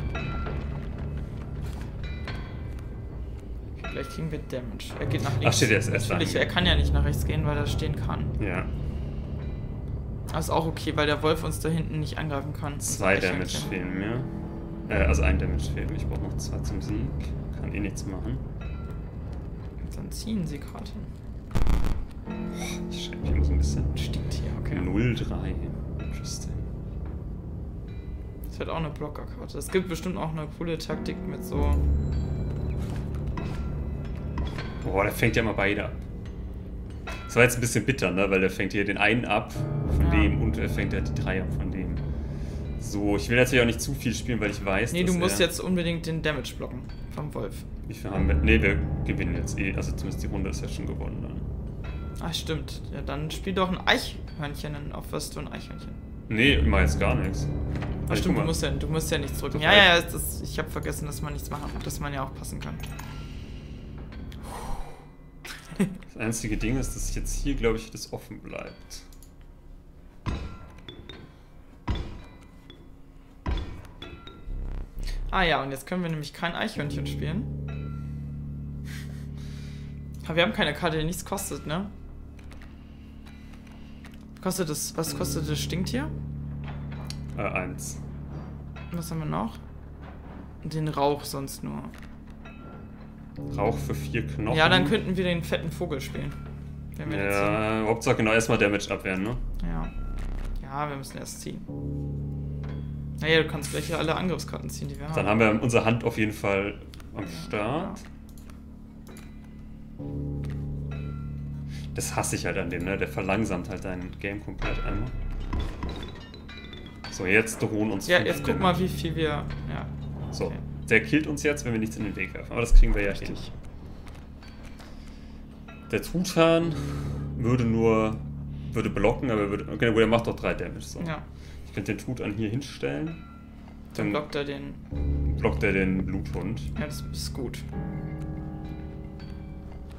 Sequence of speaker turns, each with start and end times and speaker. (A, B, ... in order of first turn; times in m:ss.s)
0:03.8-0:08.4 A
0:05.4-0:06.5 B
0:08.4-0:08.7 B
0:10.3-0:13.7 A
0:12.8-0:14.3 B
0:14.9-0:18.4 B
0:19.8-0:21.1 A
0:22.5-0:23.9 B
0:24.0-0:24.9 A
0:24.7-0:26.7 B
0:28.5-0:31.8 A
0:34.8-0:36.0 B
0:37.3-0:42.0 B
0:40.0-0:40.4 A
0:42.8-0:45.5 B
0:44.9-0:47.7 A
0:47.9-0:51.5 B
0:52.2-0:56.0 A
0:56.3-0:57.5 B
0:58.1-1:02.9 A
0:58.1-0:58.6 B
0:59.5-0:59.9 B
1:06.1-1:09.1 B
1:15.3-1:17.6 A
1:20.2-1:21.9 A
1:24.4-1:26.1 A
1:27.4-1:28.0 B
1:28.9-1:29.6 A
1:30.6-1:31.9 A
1:33.5-1:35.0 B
1:34.5-1:36.4 A
1:37.0-1:37.6 A
1:37.0-1:39.4 B
1:39.6-1:39.9 A
1:40.6-1:41.7 A
1:43.2-1:45.5 A
1:45.1-1:48.0 B
1:47.3-1:48.0 A
1:52.0-1:55.2 B
1:57.1-1:58.9 B
1:58.1-1:59.9 A
2:00.3-2:03.4 B
2:03.1-2:03.5 A
2:05.9-2:11.1 B
2:11.0-2:11.3 A
2:11.7-2:13.2 B
2:13.9-2:14.8 A
2:14.0-2:14.2 B
2:15.2-2:16.7 B
2:16.8-2:17.6 A